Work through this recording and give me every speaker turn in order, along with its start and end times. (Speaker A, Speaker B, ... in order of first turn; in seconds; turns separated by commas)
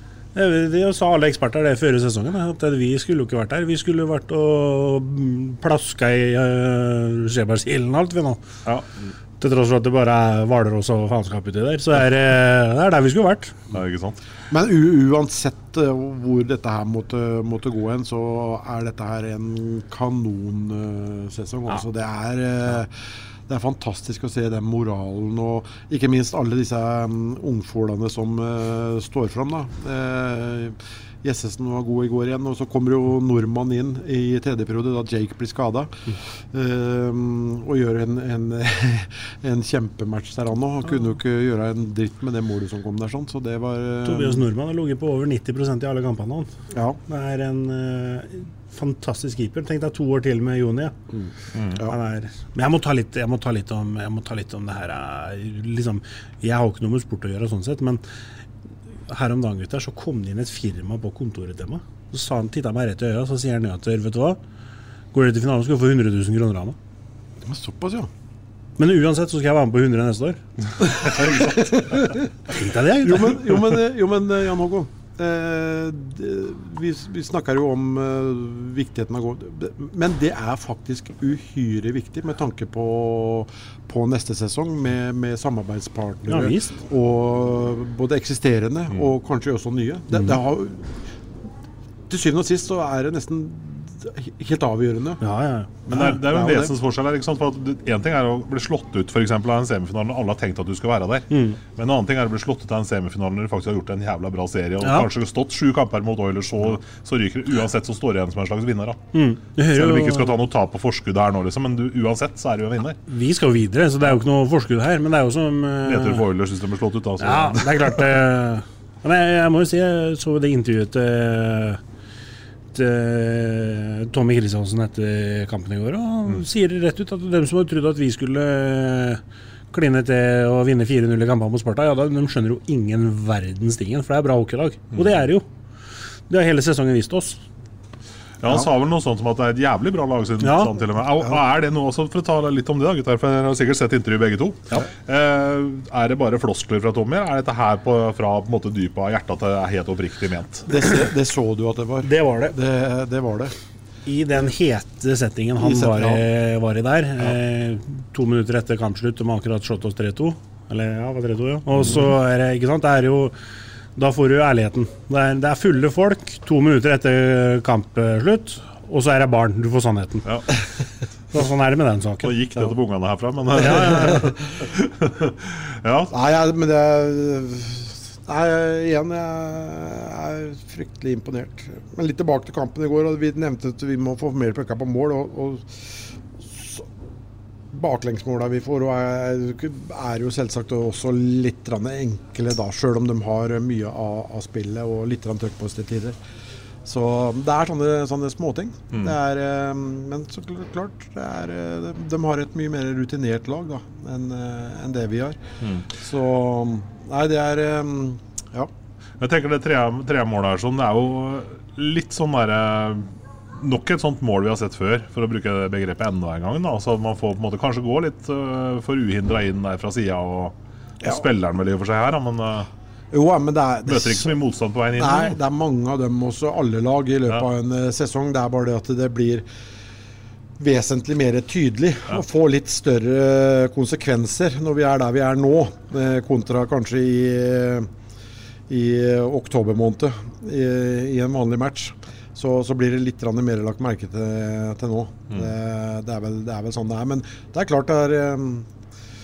Speaker A: 0.3-8.4, Speaker B: 8.7-9.1, Speaker A: 9.4-13.6, Speaker B: 13.7-14.2, Speaker C: 14.5-44.5, Speaker A: 44.0-46.5, Speaker C: 46.7-47.0, Speaker A: 47.1-51.0, Speaker C: 51.1-52.0, Speaker B: 51.5-51.8, Speaker A: 51.9-58.0, Speaker A: 59.1-64.4, Speaker A: 65.1-66.8, Speaker C: 67.4-68.1, Speaker A: 68.8-70.4, Speaker C: 70.9-72.3, Speaker B: 71.1-72.0, Speaker A: 72.5-73.4, Speaker C: 73.0-90.9, Speaker A: 86.3-86.8, Speaker A: 90.1-90.4, Speaker C: 92.1-95.2, Speaker A: 95.2-96.0, Speaker C: 95.8-96.7, Speaker B: 95.9-109.0, Speaker A: 101.3-101.6, Speaker A: 104.8-105.1, Speaker A: 109.1-110.3, Speaker B: 109.7-113.0, Speaker A: 113.1-116.2, Speaker B: 115.8-118.0, Speaker A: 117.2-121.8, Speaker A: 122.7-129.2, Speaker A: 129.7-135.4, Speaker B: 134.9-135.2, Speaker A: 136.3-137.4, Speaker B: 138.4-150.7, Speaker A: 140.4-140.7, Speaker C: 150.7-153.5, Speaker A: 152.0-152.5, Speaker A: 154.1-163.3, Speaker C: 155.6-156.3, Speaker A: 163.9-170.2, Speaker A: 171.3-172.3, Speaker B: 172.2-176.1, Speaker A: 173.6-174.3, Speaker C: 173.7-174.2, Speaker C: 176.1-186.9, Speaker C: 187.7-196.2, Speaker C: 196.8-205.4, Speaker B: 205.6-205.9, Speaker C: 205.9-208.7, Speaker B: 209.2-222.7, Speaker C: 223.1-224.3, Speaker B: 223.8-225.4, Speaker C: 224.9-229.4, Speaker C: 230.6-237.9, Speaker C: 238.7-248.7